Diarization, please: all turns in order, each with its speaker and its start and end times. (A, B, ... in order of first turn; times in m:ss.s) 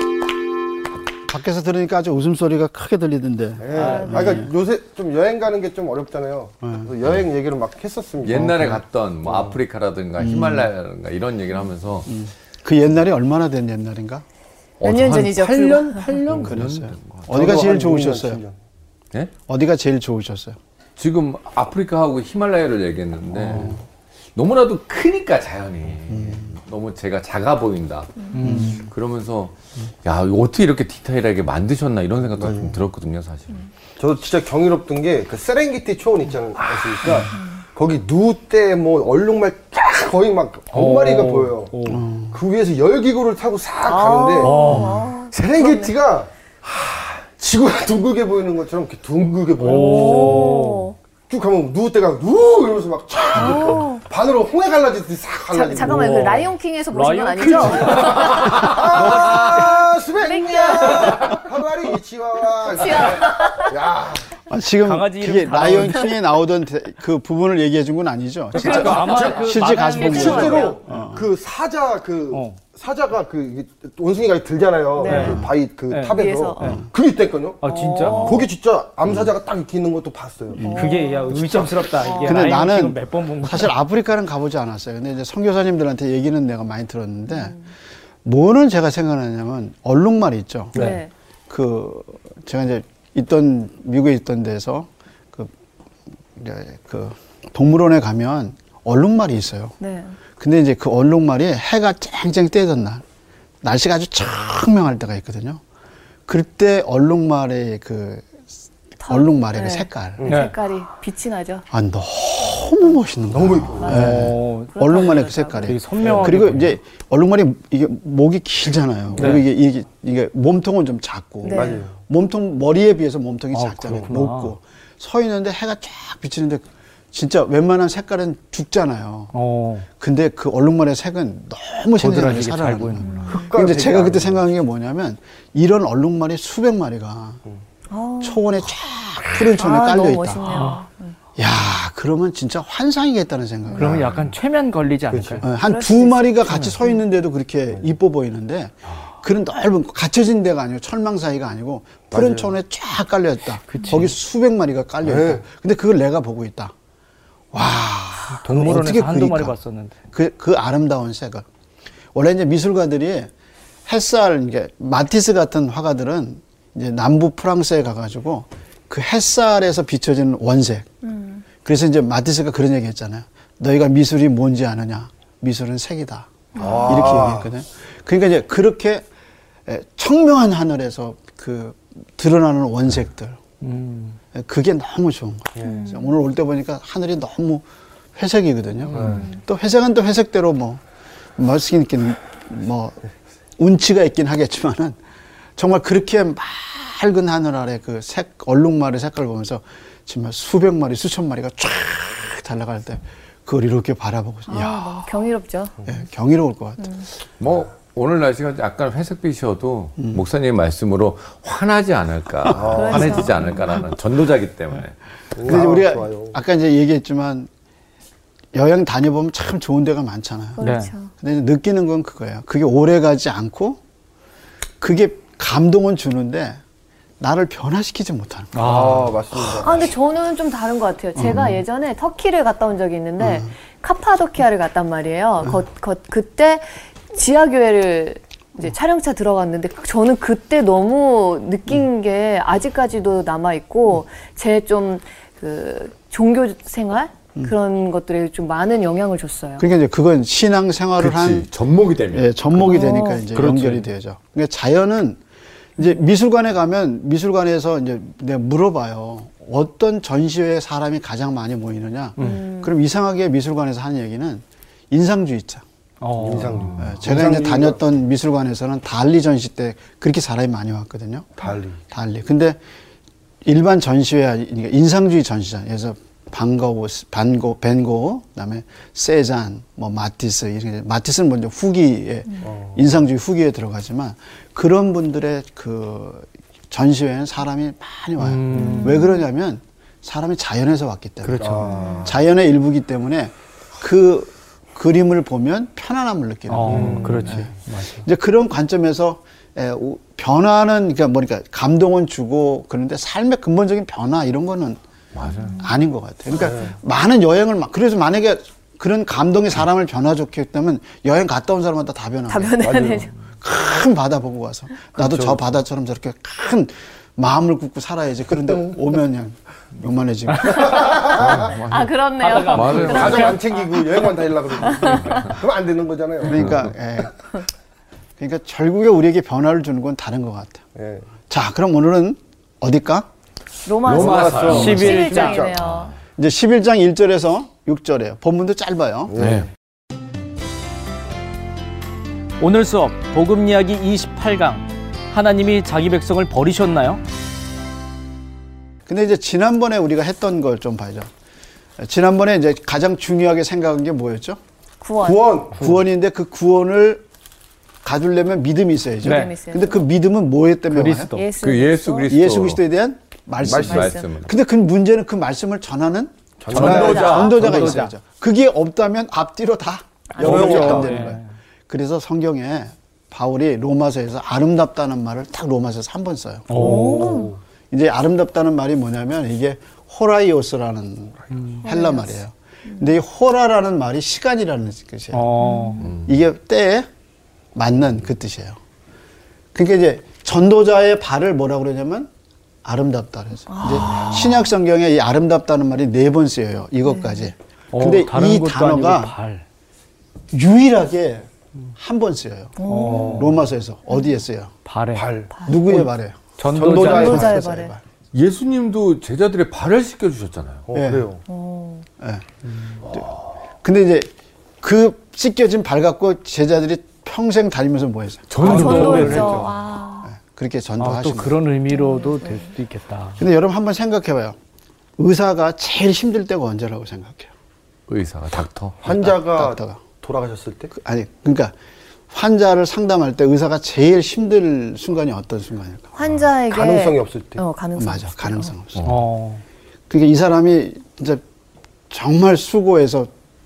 0:01.3-0:04.5 A
0:03.6-0:09.6 B
0:03.8-0:04.3 C
0:06.6-0:06.9 A
0:08.2-0:12.1 D
0:10.2-0:10.7 A
0:12.1-0:14.2 A
0:14.8-0:17.3 D
0:14.8-0:16.2 C
0:15.5-0:18.4 A
0:17.3-0:18.6 B
0:19.5-0:20.6 A
0:21.0-0:23.8 D
0:23.4-0:23.8 A
0:24.3-0:33.6 D
0:26.1-0:26.5 A
0:28.3-0:28.9 E
0:28.4-0:28.9 A
0:32.4-0:32.8 B
0:34.0-0:41.7 B
0:36.8-0:37.0 D
0:40.7-0:42.0 E
0:41.8-0:42.4 A
0:42.3-0:44.7 B
0:43.8-0:46.0 C
0:44.4-0:45.1 E
0:44.6-0:45.1 A
0:45.3-0:50.5 B
0:49.6-0:50.8 E
0:49.6-0:51.0 C
0:51.3-0:56.4 B
0:53.3-0:54.0 C
0:55.5-0:59.3 C
0:55.8-0:59.4 E
0:57.7-1:04.3 B
1:00.2-1:01.4 C
1:02.6-1:03.8 C
1:04.5-1:11.3 A
1:04.8-1:06.2 E
1:08.5-1:10.7 E
1:08.5-1:10.8 C
1:08.6-1:22.2 B
1:12.3-1:12.6 E
1:15.0-1:15.4 C
1:15.1-1:16.2 E
1:15.2-1:15.5 A
1:16.1-1:16.8 C
1:16.6-1:16.8 A
1:17.6-1:18.5 E
1:17.6-1:18.5 C
1:20.6-1:20.9 A
1:20.6-1:21.4 C
1:20.7-1:23.7 E
1:21.9-1:22.6 C
1:22.2-1:27.6 A
1:27.3-1:27.7 C
1:28.2-1:30.8 A
1:30.7-1:31.0 E
1:30.7-1:31.1 C
1:31.5-1:35.5 A
1:36.4-1:39.7 A
1:39.8-1:40.2 C
1:40.4-1:43.0 A
1:43.6-1:45.6 A
1:46.3-1:48.3 A
1:49.0-1:51.6 C
1:49.1-1:50.3 A
1:50.2-1:50.5 B
1:50.3-1:50.5 E
1:51.7-2:09.3 A
1:53.3-1:54.2 B
1:53.8-1:55.7 C
1:53.8-1:54.9 E
1:55.6-1:56.8 E
1:59.2-1:59.4 E
2:01.4-2:01.8 C
2:01.5-2:01.9 B
2:03.5-2:04.5 E
2:09.3-2:09.9 E
2:10.0-2:17.4 A
2:12.0-2:13.3 E
2:13.0-2:13.5 C
2:13.3-2:14.4 B
2:17.9-2:18.4 C
2:18.2-2:20.4 A
2:19.5-2:21.2 C
2:20.4-2:20.8 E
2:21.4-2:24.1 A
2:23.8-2:25.4 E
2:23.8-2:24.1 B
2:25.1-2:25.4 B
2:25.4-2:36.7 A
2:25.6-2:26.9 C
2:32.1-2:32.5 B
2:33.7-2:34.1 E
2:35.0-2:35.4 B
2:37.5-2:39.6 A
2:38.4-2:40.0 E
2:40.1-2:41.4 A
2:42.1-2:43.3 A
2:43.9-2:50.9 A
2:51.0-2:51.4 C
2:51.6-2:56.3 A
2:56.5-2:57.2 C
2:56.6-2:57.5 B
2:56.8-2:59.0 A
2:59.7-3:03.4 A
3:03.6-3:04.2 E
3:04.3-3:07.6 A
3:05.6-3:05.8 B
3:05.6-3:06.1 C
3:08.2-3:10.8 A
3:09.0-3:09.2 B
3:09.0-3:09.4 C
3:11.4-3:13.0 A
3:13.6-3:15.0 A
3:15.6-3:25.1 A
3:24.5-3:25.7 C
3:25.8-3:27.0 A
3:27.4-3:34.9 D
3:30.0-3:30.2 A
3:32.5-3:33.3 B
3:32.7-3:33.6 C
3:35.4-3:36.3 B
3:35.4-3:37.5 A
3:38.5-3:43.8 A
3:40.6-3:41.1 C
3:40.6-3:40.9 E
3:44.8-3:46.6 A
3:47.2-3:48.8 A
3:48.5-3:49.2 E
3:48.6-3:49.9 B
3:49.6-4:09.7 C
3:51.2-3:51.6 A
3:53.2-3:53.5 A
4:09.6-4:11.5 A
4:11.0-4:12.6 D
4:12.1-4:15.2 A
4:12.6-4:13.2 C
4:13.3-4:13.8 E
4:15.8-4:25.6 A
4:22.2-4:22.7 C
4:26.0-4:26.9 E
4:26.1-4:27.8 B
4:26.8-4:31.4 A
4:31.4-4:31.8 B
4:31.9-4:32.6 A
4:33.4-4:51.5 A
4:42.4-4:42.8 B
4:48.2-4:49.0 E
4:48.5-4:49.2 C
4:51.2-4:51.7 E
4:51.4-4:52.2 B
4:51.6-4:52.1 C
4:52.0-5:04.8 A
4:56.5-4:58.0 E
4:56.6-4:57.3 B
5:05.1-5:05.6 D
5:05.4-5:05.7 C
5:05.6-5:12.7 A
5:06.4-5:06.7 B
5:12.3-5:13.1 C
5:12.6-5:13.1 B
5:13.4-5:21.4 A
5:15.0-5:15.4 B
5:20.5-5:21.5 B
5:21.2-5:21.9 D
5:21.3-5:25.4 C
5:22.2-5:23.4 E
5:22.5-5:23.4 D
5:22.7-5:26.6 B
5:26.2-5:27.1 A
5:26.3-5:26.6 D
5:28.2-5:30.6 A
5:30.8-5:31.1 B
5:31.3-5:33.1 A
5:33.6-5:35.9 C
5:33.8-5:35.9 D
5:33.9-5:35.5 B
5:34.5-5:35.4 E
5:36.2-5:39.1 A
5:39.1-5:39.4 B
5:39.2-5:39.5 D
5:42.4-5:47.0 E
5:48.8-5:51.1 A
5:51.8-5:54.4 A
5:54.8-5:55.4 C
5:55.0-5:55.6 B
5:55.6-5:57.0 A
5:57.8-6:01.1 A
5:59.0-5:59.3 E
5:59.0-5:59.9 C
6:00.7-6:01.3 E
6:01.1-6:02.1 C
6:01.4-6:02.6 D
6:02.1-6:17.0 A
6:03.4-6:04.3 D
6:03.4-6:03.8 B
6:03.7-6:04.0 C
6:06.4-6:07.9 B
6:06.5-6:07.6 D
6:06.5-6:07.9 E
6:06.7-6:07.3 C
6:10.1-6:10.8 C
6:10.2-6:10.9 B
6:10.2-6:11.2 E
6:16.5-6:17.3 E
6:16.5-6:17.4 B
6:16.6-6:17.3 C
6:17.7-6:25.4 A
6:21.6-6:22.9 C
6:25.1-6:25.9 E
6:25.4-6:25.9 C
6:25.9-6:26.9 A
6:27.5-6:28.6 A
6:29.5-6:32.1 A
6:32.6-6:39.1 A
6:33.5-6:34.5 C
6:36.8-6:37.2 C
6:37.7-6:39.4 E
6:40.3-6:42.6 A
6:42.6-6:43.3 C
6:42.6-6:43.4 E
6:43.0-6:43.2 B
6:43.1-6:44.5 A
6:44.6-6:45.1 E
6:44.9-6:45.9 B
6:45.3-6:45.6 C
6:45.4-6:47.8 A
6:46.4-6:47.2 E
6:46.5-6:47.4 B
6:46.7-6:47.7 C
6:48.1-6:50.6 D
6:50.7-6:51.2 B
6:50.7-6:51.1 A
6:51.3-6:51.8 C
6:52.0-6:52.2 A
6:52.8-6:53.1 A
6:53.6-6:59.5 A
6:58.3-6:59.4 D
6:58.4-6:59.5 E
6:58.4-7:00.1 C
7:00.0-7:01.4 A
7:00.8-7:03.2 E
7:01.7-7:02.5 C
7:03.2-7:04.4 A
7:05.0-7:07.3 A
7:07.9-7:08.8 D
7:08.8-7:10.7 B
7:08.8-7:09.8 A
7:10.7-7:11.5 A
7:12.1-7:15.9 A
7:15.9-7:18.5 C
7:16.5-7:17.4 B
7:17.8-7:18.9 A
7:18.8-7:19.4 E
7:19.9-7:21.2 A
7:21.9-7:23.1 A